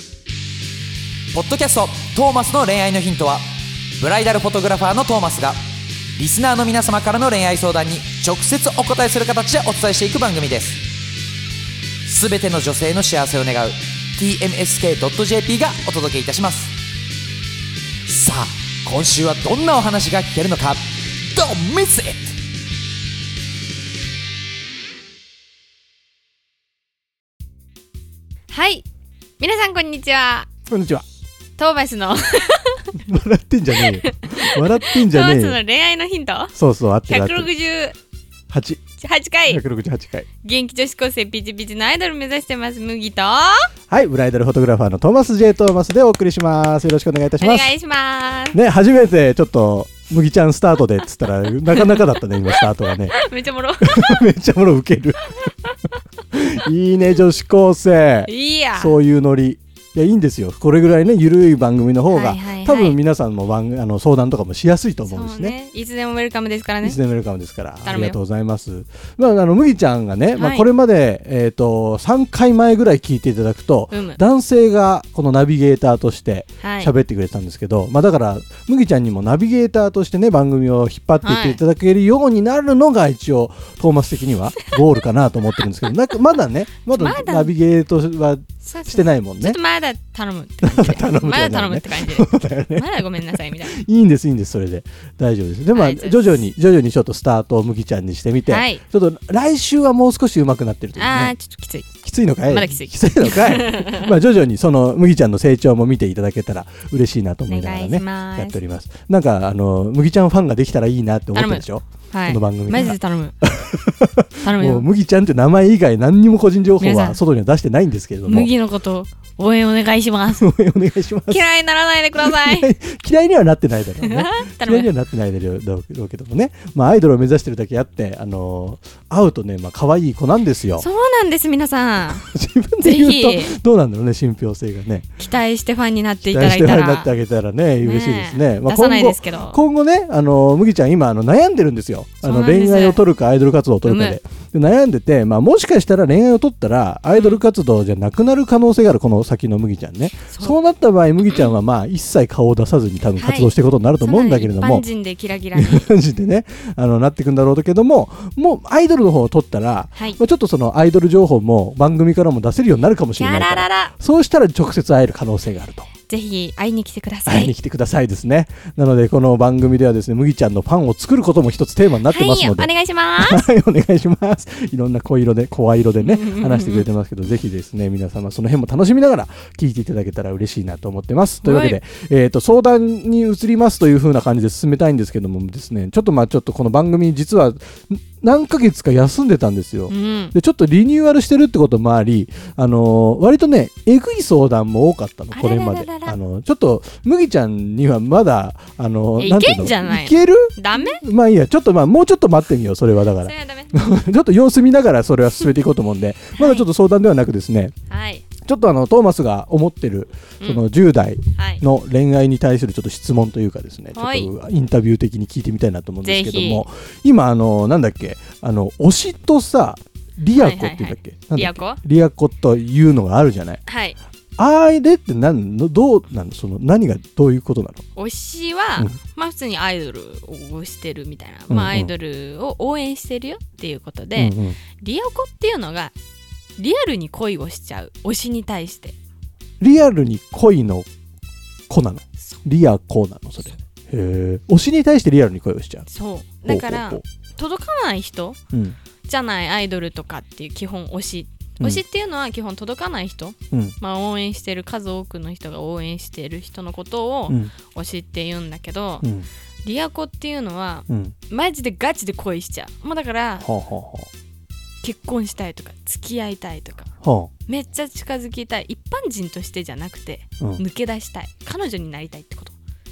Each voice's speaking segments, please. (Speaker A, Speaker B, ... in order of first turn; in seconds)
Speaker A: 1.3-3.4, 4.0-5.6, 6.2-10.8, 12.1-16.7, 18.1-22.3
Speaker B: 28.5-28.9, 29.4-30.5, 31.6-33.0, 33.8-36.5, 37.1-38.0, 39.0-39.6, 40.4-43.7, 47.4-48.6, 51.7-54.3, 58.3-59.0, 62.1-63.0, 65.1-67.0, 67.8-68.2, 70.4-70.7, 73.9-74.2, 76.6-76.9, 81.2-81.6, 86.9-87.5, 88.6-93.8, 95.7-96.4, 98.5-98.8, 101.0-102.0, 102.5-104.2, 107.5-108.6, 111.3-113.4, 114.4-114.9, 116.8-117.2, 118.3-120.5, 121.3-122.7, 124.0-124.9, 130.8-132.3, 132.8-133.6, 135.2-137.1, 137.8-139.6, 142.2-143.0, 143.8-144.2, 147.1-147.4, 150.3-150.6, 151.3-151.6, 153.2-155.9, 163.2-163.9, 166.1-167.5, 172.1-173.5, 176.0-176.9, 181.4-181.8, 189.9-190.4, 195.3-196.2, 199.2-201.0, 203.2-203.8, 206.4-206.7, 207.9-208.3, 211.4-211.6, 213.9-214.3, 216.0-216.7, 220.3-221.8, 223.7-224.0, 228.0-235.9, 236.6-238.9, 245.9-248.4, 249.1-259.1, 259.6-263.5, 264.8-266.9, 267.5-272.6
Speaker C: 30.7-31.0, 32.9-35.6, 36.5-37.5, 38.5-38.8, 39.5-40.3, 43.9-47.7, 48.5-53.2, 53.8-55.5, 56.3-65.5, 66.8-89.6, 90.6-101.3, 102.0-118.5, 120.3-121.5, 122.2-130.9, 132.1-135.1, 136.2-154.8, 155.5-165.9, 167.3-207.7, 208.4-223.6, 224.4-227.8, 231.5-231.9, 234.2-234.6, 239.6-240.9, 241.7-245.9, 246.5-247.0, 248.5-248.8, 257.3-257.5, 259.0-259.3, 260.9-261.1, 263.4-264.1, 267.0-267.3